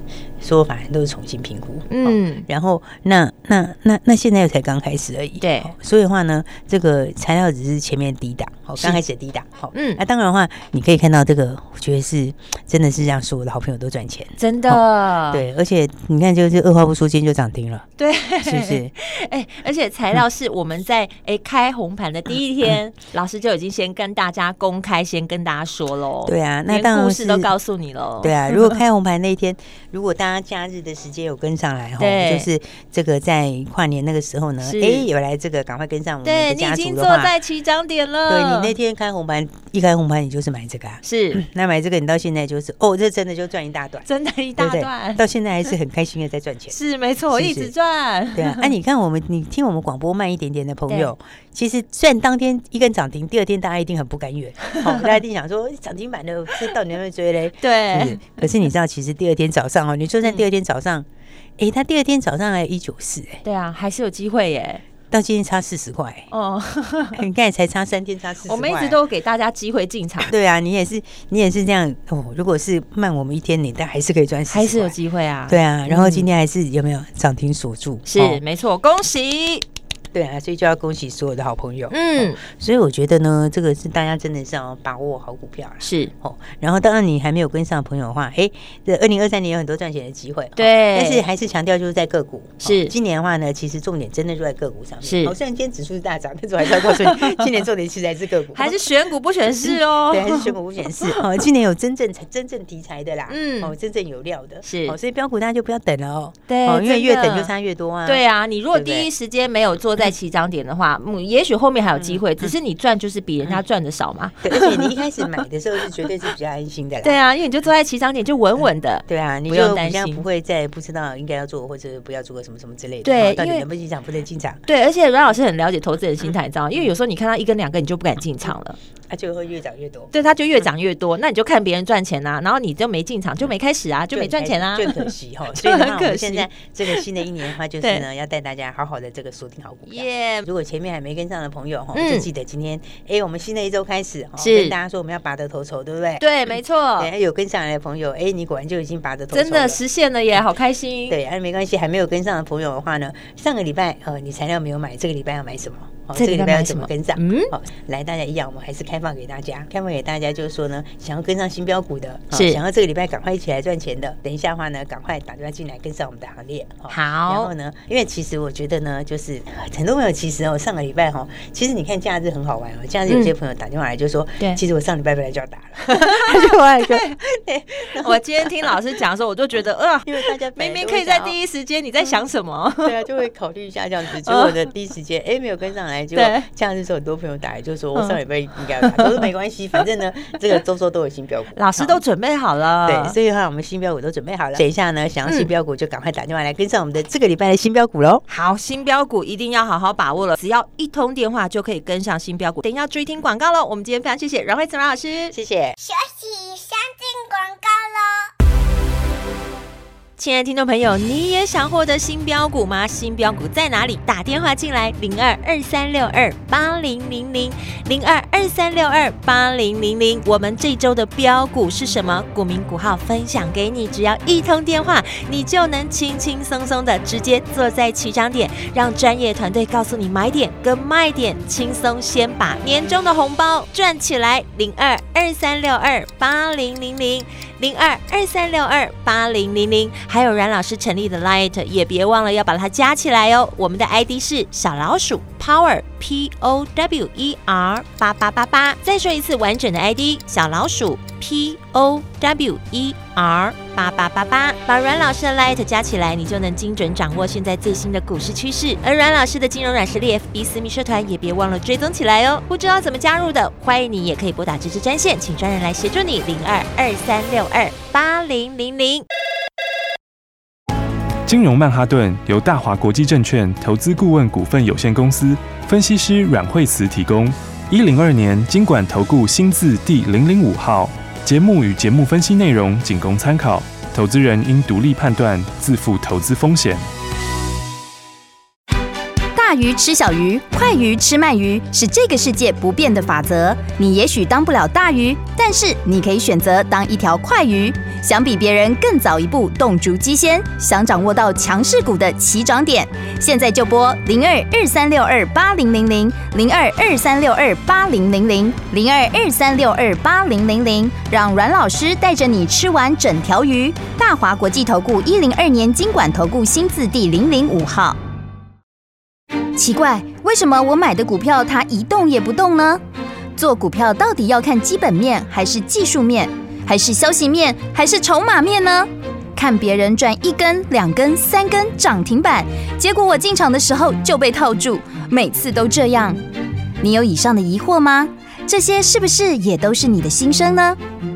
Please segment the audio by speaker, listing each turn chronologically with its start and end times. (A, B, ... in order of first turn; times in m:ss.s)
0:00.4-0:17.9 A
0:01.9-0:02.4 B
0:05.4-0:05.7 B
0:09.7-0:10.0 B
0:14.4-0:15.5 B
0:18.0-0:28.8 B
0:18.4-0:18.9 A
0:26.2-0:27.5 A
0:28.2-0:37.3 A
0:32.0-0:32.5 B
0:34.6-0:35.1 B
0:36.2-0:38.7 B
0:38.3-0:44.1 A
0:41.0-0:41.4 B
0:44.1-0:45.2 B
0:44.6-0:46.8 A
0:46.7-0:48.7 B
0:47.3-0:47.7 A
0:48.4-1:01.1 A
0:54.7-0:55.0 B
0:57.6-0:58.5 B
1:01.6-1:03.4 A
1:03.4-1:04.8 B
1:05.1-1:06.3 A
1:06.3-1:07.2 B
1:07.2-1:09.0 A
1:08.5-1:10.3 B
1:10.2-1:15.0 A
1:14.5-1:16.3 B
1:15.5-1:18.4 A
1:18.1-1:19.6 B
1:20.1-1:38.9 A
1:21.9-1:22.4 B
1:25.8-1:26.1 B
1:30.6-1:31.2 B
1:32.6-1:32.9 B
1:35.0-1:35.3 B
1:36.7-1:37.7 B
1:38.6-1:41.2 B
1:39.5-1:49.1 A
1:43.3-1:43.8 B
1:44.6-1:45.0 B
1:46.5-1:47.5 B
1:48.1-1:55.3 B
1:54.4-1:57.2 A
1:57.0-2:00.2 B
1:59.1-2:04.6 A
2:03.0-2:03.7 B
2:04.7-2:08.8 B
2:09.1-2:10.1 A
2:10.1-2:17.3 B
2:14.1-2:26.3 A
2:19.9-2:20.5 B
2:21.9-2:22.3 B
2:24.4-2:24.8 B
2:26.2-2:27.1 B
2:27.0-2:29.8 A
2:29.3-2:31.2 B
2:31.1-2:58.8 A
2:36.2-2:37.5 B
2:42.3-2:42.6 B
2:46.9-2:47.5 B
2:53.1-2:53.3 B
2:55.9-2:57.2 B
2:57.9-3:03.0 B
3:00.0-3:01.4 A
3:02.8-3:12.0 A
3:04.2-3:04.7 B
3:06.1-3:06.5 B
3:08.8-3:09.3 B
3:11.6-3:13.2 B
3:12.8-3:18.2 A
3:18.3-3:25.4 B
3:25.3-3:25.8 A
3:25.8-3:28.3 C
3:30.2-4:29.0 B
4:31.3-4:46.8 D
4:49.3-5:18.0 E
5:19.6-5:22.8 E
5:23.4-5:36.2 E
5:36.8-5:40.8 E